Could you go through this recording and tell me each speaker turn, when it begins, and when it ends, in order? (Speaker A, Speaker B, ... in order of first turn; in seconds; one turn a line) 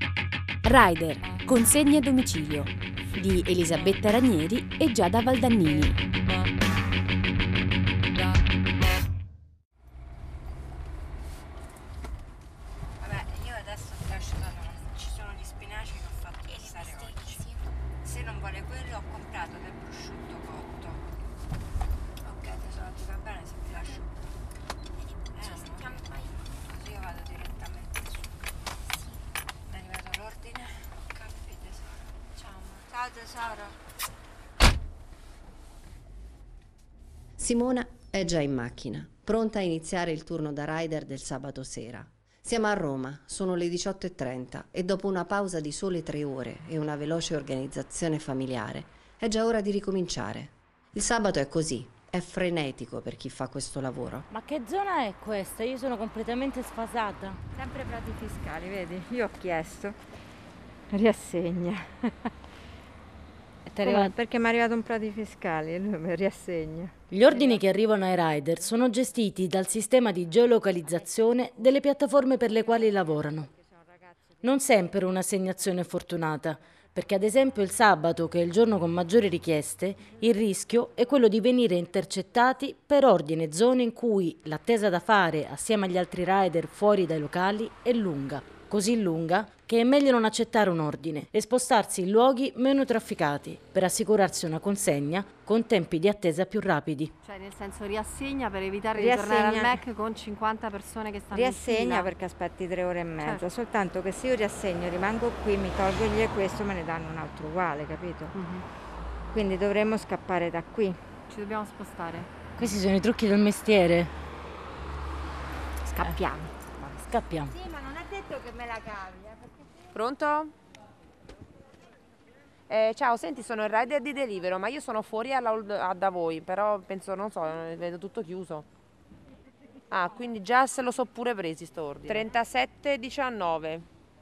Speaker A: 0.6-6.0
Speaker B: 13.0-17.5
Speaker B: 18.0-21.0
Speaker B: 22.2-24.1
Speaker B: 25.3-28.3
Speaker B: 29.7-33.8
Speaker C: 37.4-54.2
Speaker D: 54.3-57.4
Speaker B: 57.5-60.0
Speaker B: 60.9-62.3
Speaker D: 63.7-64.1
Speaker B: 63.8-67.6
Speaker D: 67.1-73.5
Speaker D: 74.4-97.1
Speaker E: 97.2-102.1
Speaker B: 98.9-99.8
Speaker B: 101.3-108.3
Speaker E: 108.3-108.6
Speaker B: 109.3-111.0
Speaker E: 111.3-112.3
Speaker D: 112.6-114.1
Speaker B: 116.0-116.5
Speaker D: 116.8-117.5
Speaker B: 117.5-119.5
Speaker F: 119.9-120.5
Speaker F: 122.7-128.7
Speaker F: 129.9-133.9